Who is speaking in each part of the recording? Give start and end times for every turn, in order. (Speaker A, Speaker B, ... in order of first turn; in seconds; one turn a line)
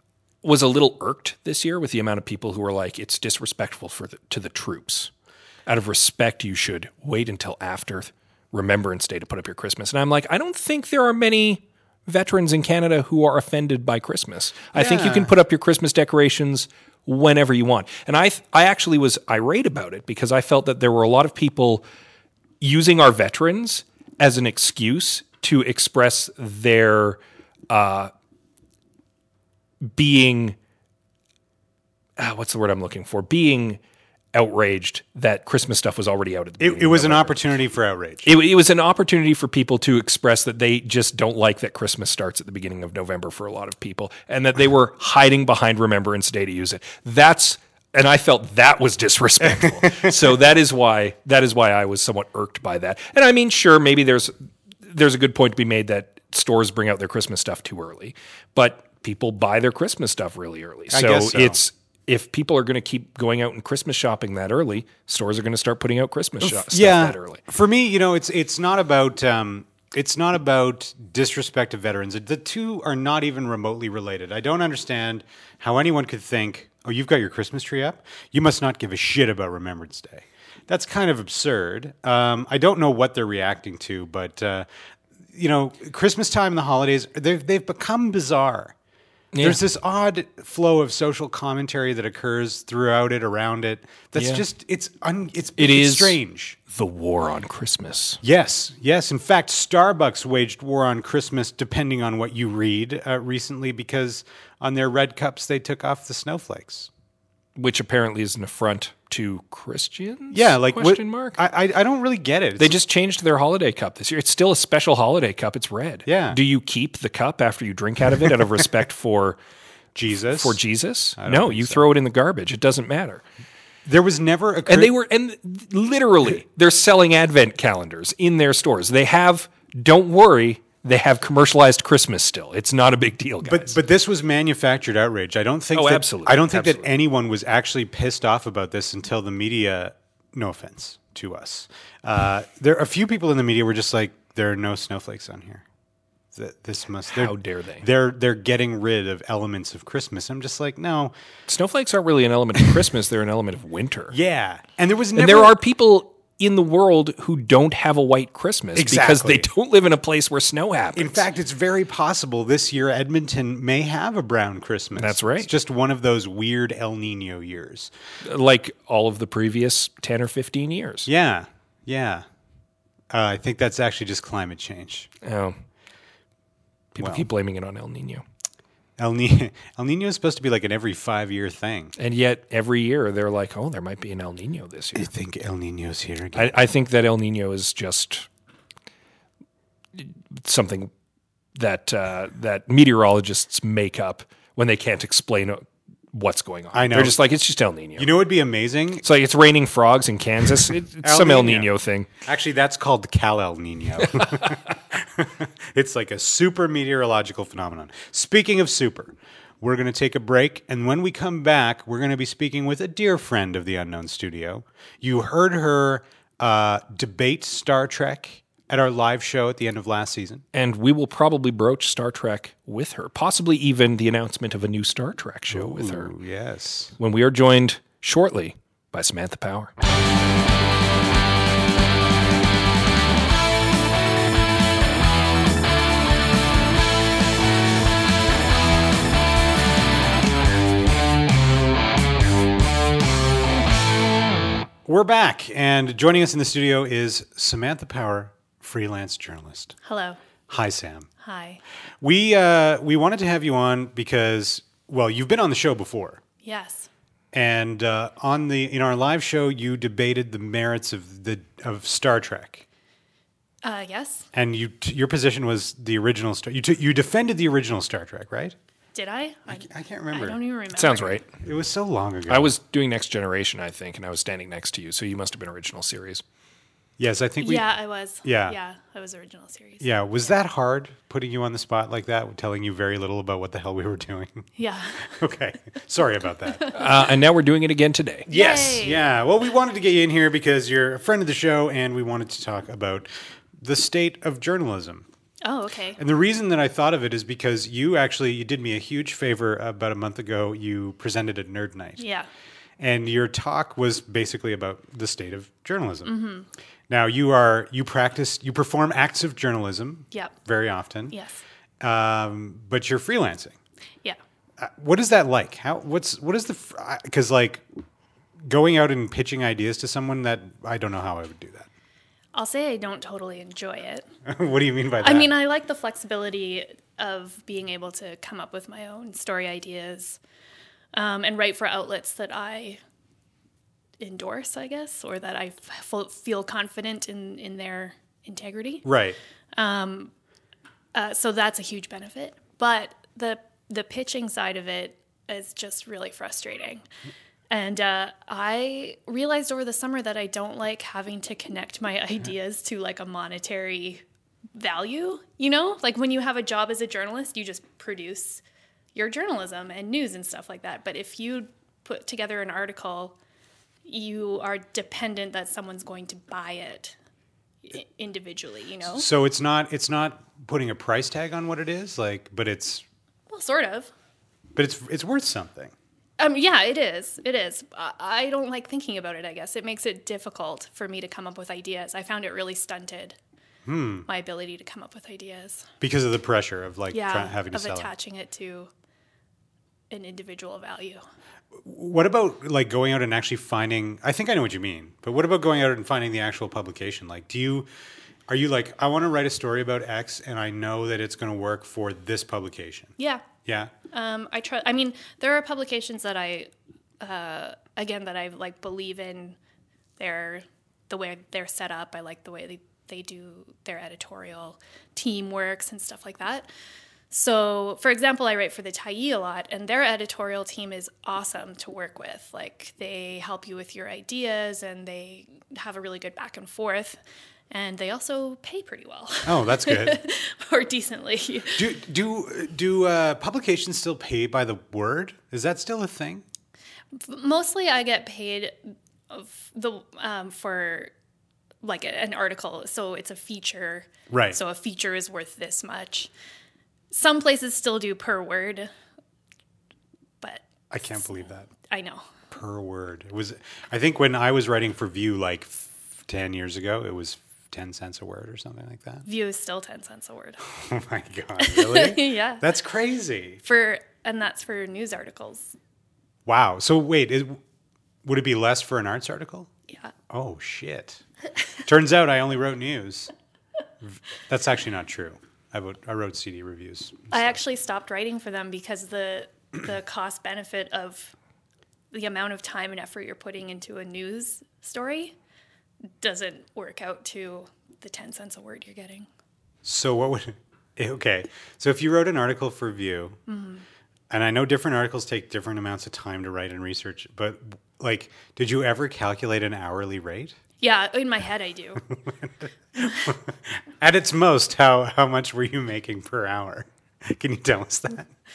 Speaker A: 0.4-5.1
Speaker A: 5.7-21.8
Speaker B: 14.7-15.3
Speaker A: 22.6-28.1
Speaker A: 29.8-30.6
Speaker A: 32.2-33.8
Speaker A: 34.3-37.4
Speaker B: 36.6-38.3
Speaker A: 38.2-67.4
Speaker B: 49.8-50.1
Speaker B: 60.9-61.6
Speaker B: 66.4-84.7
Speaker B: 85.3-88.7
Speaker A: 89.3-89.6
Speaker B: 89.4-96.6
Speaker A: 94.1-94.4
Speaker A: 95.6-98.2
Speaker B: 98.2-106.9
Speaker A: 107.5-111.4
Speaker B: 110.3-112.8
Speaker A: 112.6-119.4
Speaker B: 116.0-116.4
Speaker B: 119.9-120.6
Speaker A: 120.3-123.2
Speaker B: 121.2-121.8
Speaker B: 123.8-124.9
Speaker A: 124.7-133.8
Speaker B: 133.4-145.6
Speaker A: 135.7-136.9
Speaker B: 146.3-151.1
Speaker A: 147.1-147.8
Speaker A: 151.5-154.1
Speaker B: 154.1-155.6
Speaker A: 155.1-161.2
Speaker B: 158.7-159.5
Speaker B: 160.9-167.9
Speaker A: 164.9-165.5
Speaker A: 168.2-171.1
Speaker B: 171.1-172.2
Speaker B: 173.1-175.1
Speaker A: 175.2-175.6
Speaker A: 176.9-178.2
Speaker B: 177.0-177.2
Speaker B: 179.0-181.9
Speaker A: 182.0-185.1
Speaker B: 184.9-186.5
Speaker A: 186.3-188.3
Speaker A: 189.9-190.9
Speaker A: 191.5-198.1
Speaker B: 196.7-197.2
Speaker B: 198.0-199.0
Speaker A: 199.0-202.1
Speaker B: 201.0-201.7
Speaker B: 202.2-220.4
Speaker A: 204.2-204.4
Speaker A: 220.5-226.1
Speaker B: 225.5-226.9
Speaker A: 227.0-229.7
Speaker B: 244.8-249.8
Speaker C: 249.8-250.2
Speaker B: 250.5-251.1
Speaker C: 251.2-251.6
Speaker B: 252.0-256.2
Speaker C: 256.4-256.9
Speaker B: 257.3-262.6
Speaker C: 263.6-264.3
Speaker B: 264.3-268.5
Speaker C: 268.9-271.2
Speaker B: 269.5-270.4
Speaker A: 270.7-271.3
Speaker B: 271.4-272.5
Speaker A: 272.3-276.2
Speaker B: 277.0-277.7
Speaker C: 277.4-279.9
Speaker B: 278.2-278.6
Speaker B: 279.8-284.5
Speaker C: 284.6-285.1
Speaker B: 285.0-286.8
Speaker A: 286.7-288.3
Speaker B: 288.3-293.1
Speaker C: 288.3-289.0
Speaker B: 293.6-295.1
Speaker C: 295.4-296.0
Speaker B: 296.0-302.0
Speaker C: 302.0-302.3
Speaker B: 302.8-306.1
Speaker C: 306.0-306.5
Speaker B: 306.9-311.1
Speaker C: 311.1-311.4
Speaker B: 311.8-313.6
Speaker B: 314.6-317.6
Speaker B: 318.4-321.7
Speaker C: 322.3-324.1
Speaker B: 324.2-325.3
Speaker C: 325.0-330.2
Speaker C: 330.9-332.8
Speaker C: 334.0-338.9
Speaker B: 338.8-339.2
Speaker C: 339.5-340.1
Speaker C: 340.9-346.8
Speaker C: 347.5-354.0
Speaker C: 354.5-358.4
Speaker C: 358.9-363.1
Speaker C: 363.9-366.9
Speaker C: 367.6-369.1
Speaker B: 368.9-372.8
Speaker C: 373.3-373.9
Speaker B: 374.6-375.7
Speaker C: 376.2-383.2
Speaker B: 383.6-384.1
Speaker C: 384.1-385.7
Speaker B: 385.8-387.9
Speaker C: 386.9-388.7
Speaker C: 389.9-391.0
Speaker B: 391.6-397.7
Speaker B: 398.3-402.9
Speaker C: 403.0-403.2
Speaker B: 403.4-403.7
Speaker C: 403.9-409.4
Speaker C: 410.0-416.5
Speaker C: 417.1-427.0
Speaker C: 427.5-431.7
Speaker B: 429.2-430.0
Speaker B: 431.6-436.2
Speaker C: 436.9-440.9
Speaker C: 441.6-446.1
Speaker B: 444.1-444.4
Speaker C: 446.9-448.7
Speaker C: 450.2-452.1
Speaker B: 450.7-451.5
Speaker B: 452.3-459.1
Speaker C: 459.1-460.4
Speaker B: 460.5-463.4
Speaker C: 461.4-462.5
Speaker C: 463.4-465.5
Speaker B: 466.2-467.4
Speaker B: 468.0-469.5
Speaker B: 470.1-471.0
Speaker B: 471.6-473.1
Speaker B: 473.8-477.4
Speaker C: 477.1-481.1
Speaker C: 481.9-485.1
Speaker C: 486.0-489.1
Speaker B: 489.6-493.2
Speaker C: 493.3-493.6
Speaker B: 494.1-500.4
Speaker C: 500.6-501.8
Speaker B: 502.1-508.1